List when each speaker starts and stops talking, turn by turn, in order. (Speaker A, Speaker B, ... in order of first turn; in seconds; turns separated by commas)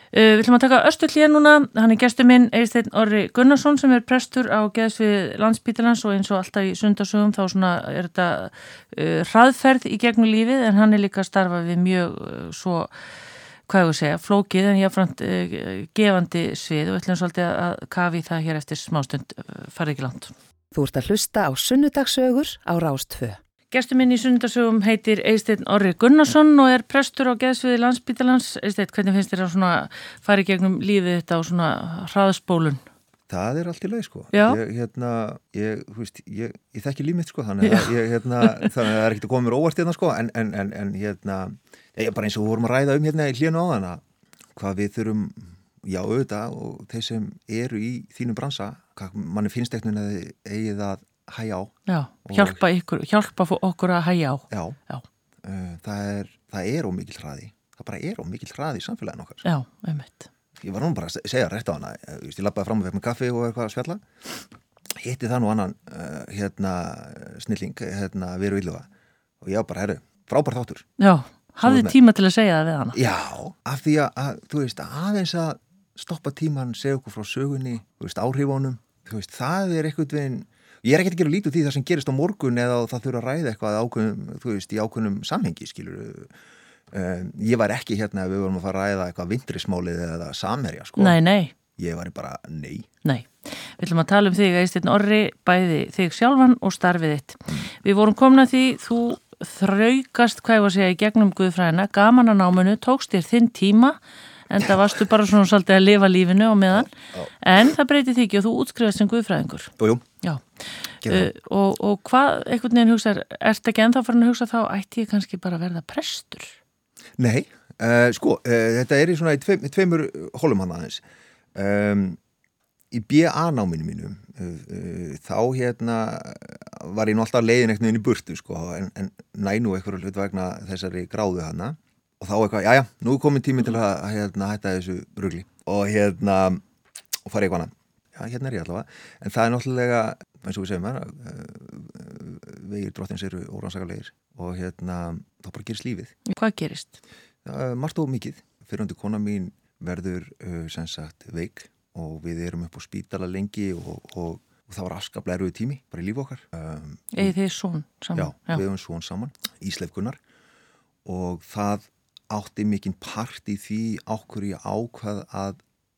Speaker A: 0.1-12.9, Speaker A: 13.7-20.3, Speaker B: 20.7-23.4, Speaker A: 23.7-32.8, Speaker C: 33.3-44.0, Speaker A: 34.3-34.6, Speaker A: 37.6-38.7, Speaker C: 44.5-51.7, Speaker A: 51.9-55.0, Speaker C: 52.2-52.6, Speaker C: 54.5-54.8, Speaker C: 55.4-59.4, Speaker A: 59.4-60.3, Speaker C: 60.6-68.9, Speaker C: 69.4-70.9, Speaker A: 71.0-73.0, Speaker C: 71.6-72.0, Speaker C: 72.9-86.3, Speaker C: 86.9-91.2, Speaker A: 91.0-91.5, Speaker C: 91.8-92.9, Speaker A: 93.0-104.0, Speaker A: 104.5-110.4, Speaker C: 104.6-104.8, Speaker C: 106.7-107.3, Speaker C: 109.8-110.0, Speaker C: 111.0-111.3, Speaker A: 111.0-116.6, Speaker C: 117.2-121.0, Speaker C: 121.5-122.2, Speaker C: 122.9-136.6, Speaker C: 137.2-146.1, Speaker A: 146.2-147.0, Speaker C: 147.4-157.3, Speaker A: 157.1-158.6, Speaker C: 158.1-160.2, Speaker C: 161.0-165.6